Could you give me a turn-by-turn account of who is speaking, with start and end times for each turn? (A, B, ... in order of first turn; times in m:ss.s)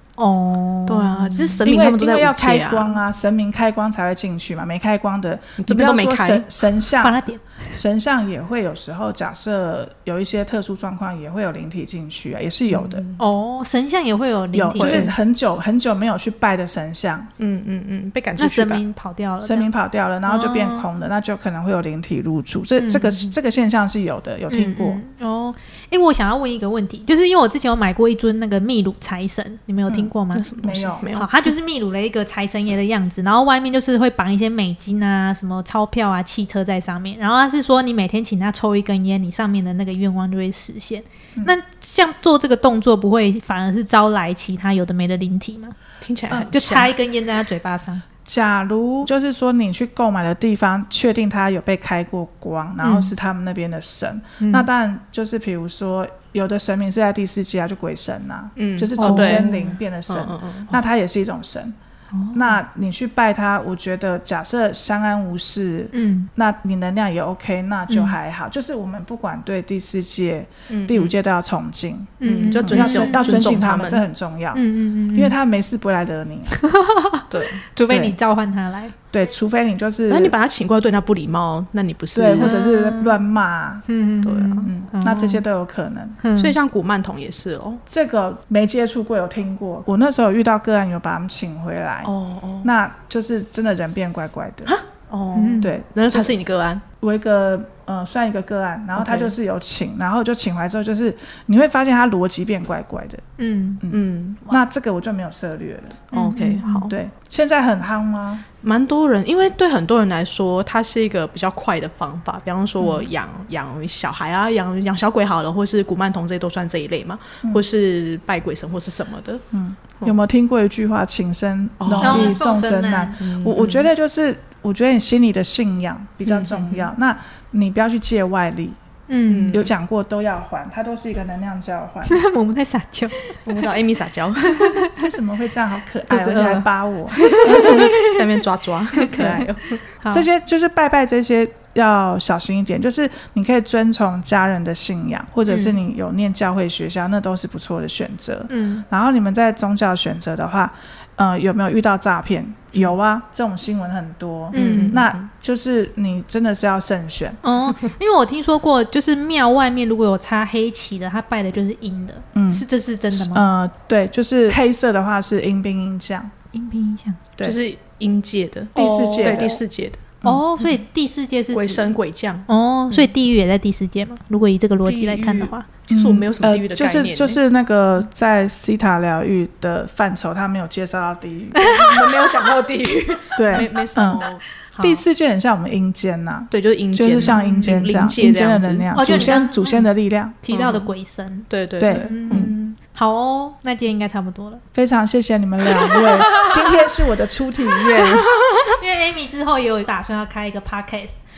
0:00.2-0:01.6 A
0:00.9-0:03.0 B
0:01.6-0:07.2 C
0:05.6-0:06.5 B
0:07.0-0:07.6 A
0:07.7-0:13.0 C
0:12.7-0:13.2 B
0:13.2-0:15.2 A
0:14.5-0:17.3 C
0:14.8-0:15.1 B
0:17.4-0:18.8 B
0:18.4-0:19.7 A
0:19.4-0:25.0 C
0:20.3-0:20.9 A
0:22.8-0:23.2 A
0:24.5-0:30.5 A
0:30.3-0:31.5 B
0:30.6-0:31.1 C
0:31.1-0:45.8 A
0:46.0-0:46.9 B
0:46.3-0:48.0 A
0:48.3-1:01.8 C
0:52.8-0:53.1 A
0:54.4-0:54.7 A
0:58.6-0:59.5 B
0:59.0-0:59.7 A
1:00.1-1:00.8 B
1:02.1-1:02.6 A
1:02.3-1:14.6 C
1:05.9-1:06.3 A
1:07.9-1:08.2 A
1:10.7-1:11.1 B
1:12.2-1:13.2 A
1:12.2-1:14.0 B
1:14.5-1:15.3 A
1:15.1-1:16.6 C
1:16.6-1:19.0 A
1:17.3-1:17.6 B
1:17.9-1:18.2 C
1:19.1-1:20.4 C
1:20.1-1:22.5 B
1:22.1-1:23.8 C
1:22.4-1:23.2 A
1:23.9-1:25.4 A
1:24.2-1:24.7 B
1:24.7-1:26.2 C
1:26.2-1:26.6 A
1:26.4-1:27.8 B
1:27.9-1:32.1 C
1:32.0-1:32.7 B
1:32.6-1:34.8 C
1:34.7-1:36.8 B
1:35.4-1:35.7 A
1:35.6-1:36.4 C
1:37.0-1:43.2 C
1:39.0-1:39.3 B
1:43.4-1:43.8 A
1:43.8-1:46.1 C
1:43.9-1:44.5 B
1:46.1-1:46.9 B
1:46.1-1:46.9 A
1:46.9-1:48.4 C
1:48.6-1:59.4 B
1:59.5-2:08.8 C
2:01.8-2:02.4 B
2:02.0-2:03.2 A
2:03.2-2:03.9 B
2:06.3-2:06.9 B
2:09.1-2:09.6 A
2:09.3-2:09.7 B
2:09.5-2:12.2 C
2:12.1-2:13.6 A
2:13.5-2:14.8 B
2:14.5-2:14.9 A
2:15.0-2:17.9 C
2:16.1-2:18.4 A
2:17.3-2:19.8 B
2:19.1-2:19.5 C
2:20.1-2:37.4 C
2:28.5-2:28.8 A
2:34.5-2:35.0 A
2:34.5-2:35.3 B
2:37.4-2:43.4 A
2:42.4-2:46.3 C
2:46.5-2:47.3 A
2:47.4-2:50.8 B
2:48.8-2:49.6 C
2:48.8-2:49.6 A
2:50.2-2:52.0 A
2:51.5-2:53.1 B
2:52.5-2:55.7 A
2:54.8-2:57.4 B
2:55.9-3:01.9 C
3:01.6-3:02.3 A
3:01.7-3:04.4 B
3:03.4-3:04.2 C
3:04.7-3:05.0 A
3:04.8-3:10.4 C
3:06.5-3:09.4 B
3:07.2-3:07.8 A
3:08.9-3:09.9 A
3:10.4-3:14.6 A
3:10.5-3:10.9 B
3:11.5-3:12.5 B
3:11.8-3:12.5 C
3:14.7-3:18.3 C
3:16.1-3:16.4 A
3:17.9-3:21.2 A